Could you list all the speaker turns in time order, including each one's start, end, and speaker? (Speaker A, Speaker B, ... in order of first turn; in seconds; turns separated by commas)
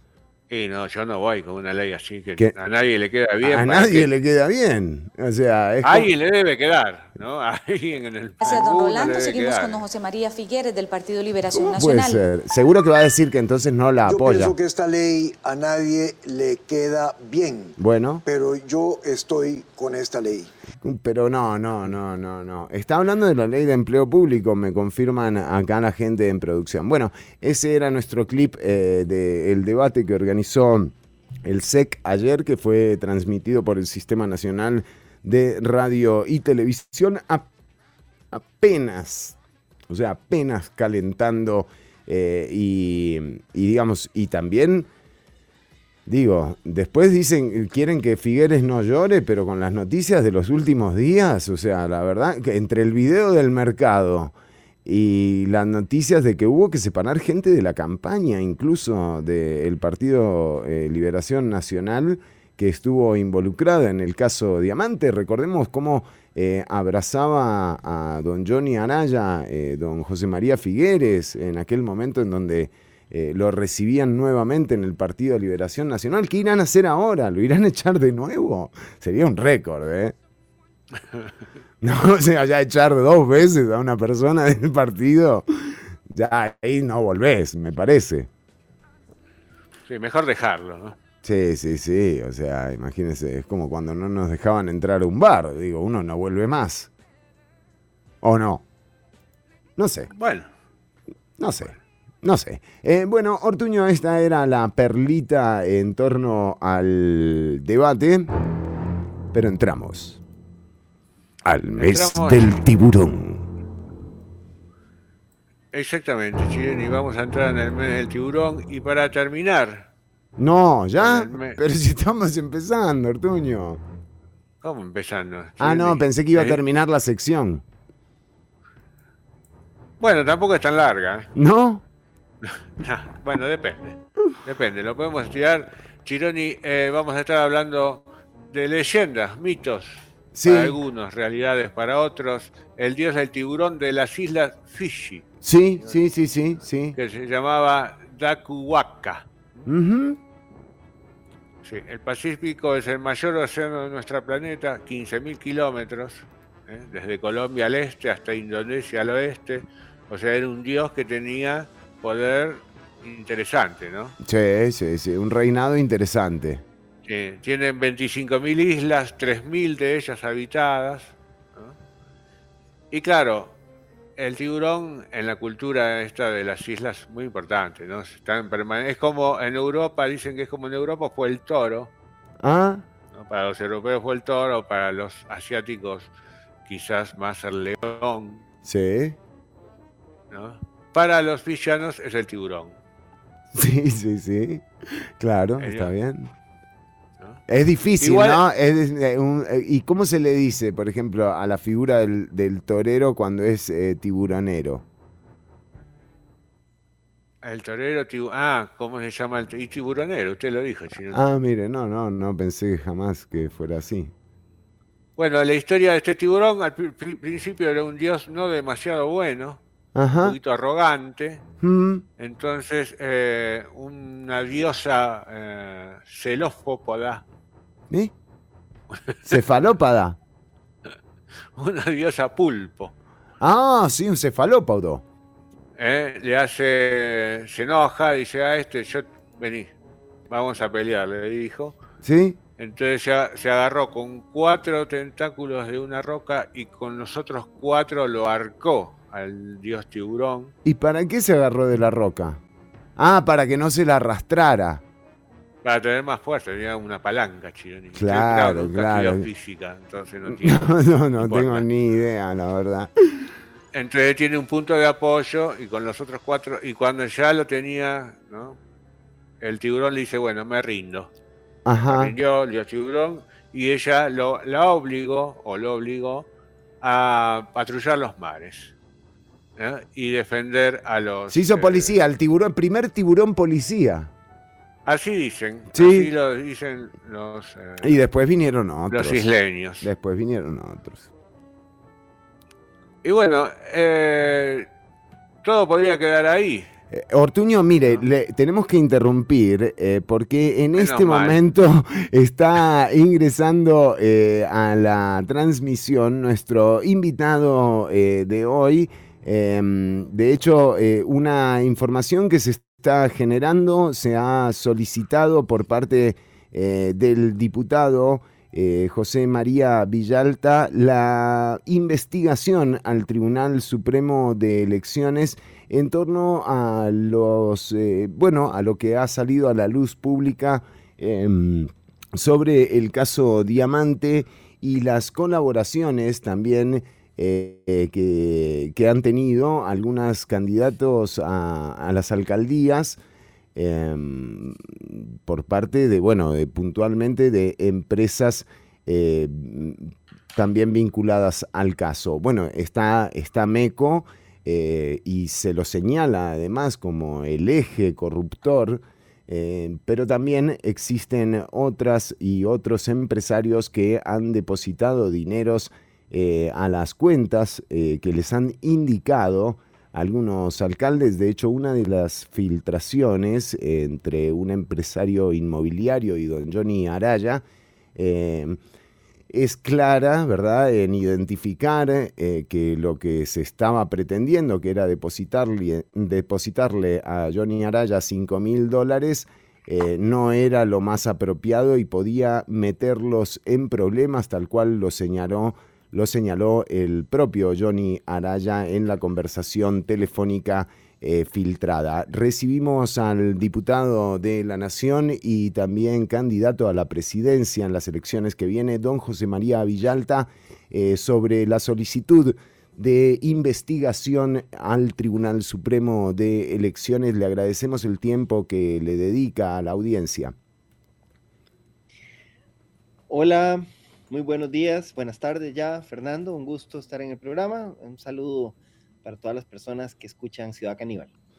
Speaker A: 0.5-4.1, Speaker B: 3.4-6.1, Speaker A: 5.8-9.8, Speaker C: 8.4-12.2, Speaker B: 11.5-14.6, Speaker D: 14.1-20.5, Speaker B: 17.8-18.2, Speaker B: 20.8-37.5, Speaker B: 38.3-39.4, Speaker B: 39.9-44.9, Speaker B: 46.1-54.3, Speaker B: 54.9-80.2, Speaker A: 81.0-81.3, Speaker B: 81.8-88.3, Speaker A: 89.9-91.0, Speaker B: 91.2-96.9, Speaker B: 98.2-98.6, Speaker B: 99.8-100.1, Speaker A: 100.1-100.5, Speaker B: 101.4-108.3, Speaker B: 109.3-110.2, Speaker B: 111.4-113.5, Speaker A: 111.8-112.6, Speaker A: 115.7-119.9, Speaker B: 120.4-123.8, Speaker A: 121.0-121.6, Speaker A: 124.6-126.6, Speaker B: 125.6-127.6, Speaker A: 130.0-131.3, Speaker B: 131.3-131.8, Speaker A: 132.4-145.3, Speaker B: 140.3-140.8, Speaker B: 145.4-147.0, Speaker A: 146.9-149.7, Speaker B: 149.7-150.2, Speaker A: 151.6-164.2, Speaker B: 164.2-166.6, Speaker A: 167.1-171.8, Speaker A: 172.9-173.6, Speaker A: 174.2-181.9, Speaker B: 182.4-182.8, Speaker A: 183.1-186.1, Speaker A: 186.7-188.4, Speaker B: 188.7-189.2, Speaker A: 190.3-192.8, Speaker B: 193.5-194.7, Speaker B: 195.2-196.3, Speaker A: 195.6-195.9, Speaker B: 197.5-204.8, Speaker A: 198.0-198.4, Speaker A: 207.4-211.2, Speaker B: 211.1-214.1, Speaker A: 215.2-219.6, Speaker B: 219.9-220.4, Speaker A: 220.2-221.4, Speaker B: 221.6-222.1, Speaker A: 222.2-227.2, Speaker A: 228.9-229.4, Speaker B: 229.3-230.2, Speaker A: 231.6-232.9, Speaker B: 233.4-235.0, Speaker A: 235.8-239.7, Speaker A: 240.3-241.8, Speaker B: 242.0-242.4, Speaker A: 242.6-250.5, Speaker B: 250.7-252.4, Speaker B: 253.0-254.8, Speaker A: 255.6-261.7, Speaker B: 257.9-259.3, Speaker B: 260.3-262.9, Speaker A: 263.7-268.6, Speaker A: 269.4-271.1, Speaker B: 271.7-272.1, Speaker A: 271.9-276.3, Speaker A: 276.8-278.7, Speaker A: 279.6-282.0, Speaker B: 281.3-284.1, Speaker A: 284.9-288.0, Speaker B: 285.7-286.1, Speaker B: 287.8-289.2, Speaker A: 288.9-289.9, Speaker B: 289.8-291.1, Speaker A: 293.0-294.7, Speaker A: 295.4-296.7, Speaker B: 296.9-343.0, Speaker A: 300.8-301.4, Speaker B: 343.6-377.4, Speaker B: 378.0-378.6, Speaker B: 379.3-420.4, Speaker E: 423.1-431.1